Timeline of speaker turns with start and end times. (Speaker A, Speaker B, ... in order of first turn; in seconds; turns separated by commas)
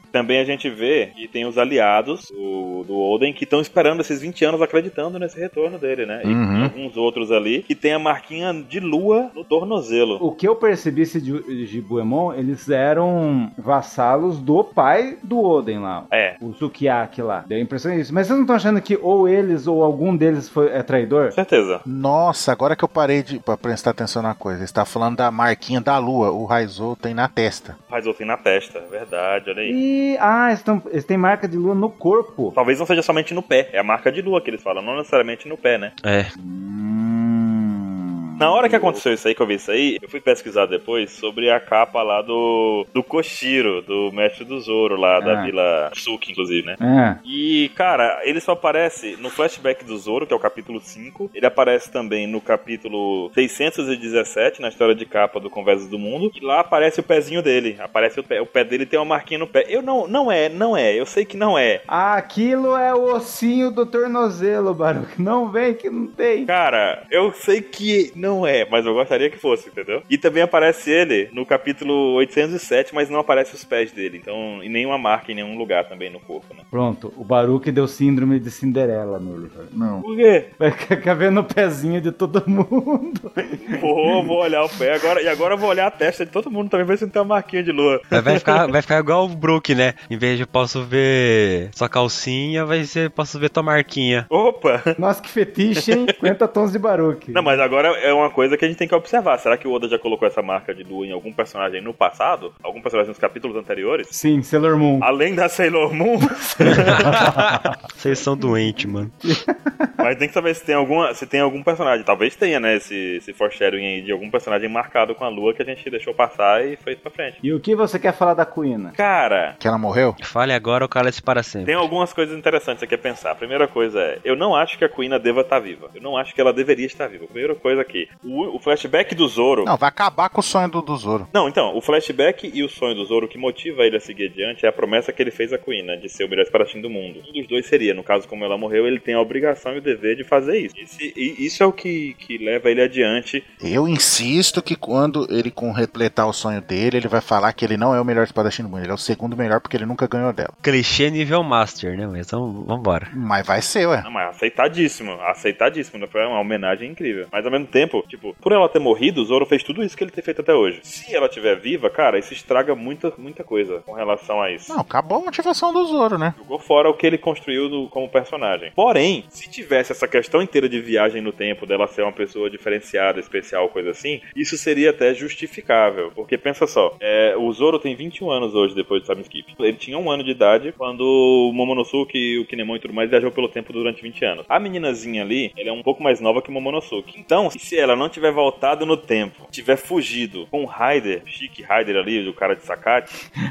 Speaker A: 0.1-10.2, Speaker B: 6.2-6.7, Speaker C: 10.2-21.4, Speaker A: 16.1-16.4, Speaker A: 21.3-21.8, Speaker B: 21.8-27.8, Speaker A: 27.9-29.8, Speaker C: 29.6-32.5, Speaker A: 32.5-35.9, Speaker D: 36.0-36.3, Speaker C: 36.4-39.0, Speaker A: 38.4-61.8, Speaker C: 45.2-45.5, Speaker C: 46.8-47.2, Speaker C: 61.9-66.5, Speaker A: 66.5-76.6, Speaker C: 76.7-80.0, Speaker A: 80.0-80.5, Speaker C: 80.6-84.3, Speaker A: 83.6-88.7, Speaker D: 88.1-94.3, Speaker A: 94.3-95.0, Speaker C: 95.0-97.6, Speaker A: 95.8-96.1, Speaker A: 97.3-104.1, Speaker C: 104.1-105.1, Speaker A: 105.0-107.3, Speaker C: 106.6-107.8, Speaker D: 106.7-109.1, Speaker C: 109.2-110.0, Speaker A: 110.0-117.4, Speaker C: 117.4-118.9, Speaker A: 119.0-119.5, Speaker B: 119.6-120.2, Speaker D: 120.2-121.9, Speaker A: 121.6-129.7, Speaker B: 129.6-131.3, Speaker A: 131.3-143.4, Speaker B: 143.6-150.5, Speaker D: 150.6-153.1, Speaker B: 153.1-154.1, Speaker A: 154.0-164.8, Speaker B: 164.7-166.3, Speaker A: 166.4-193.1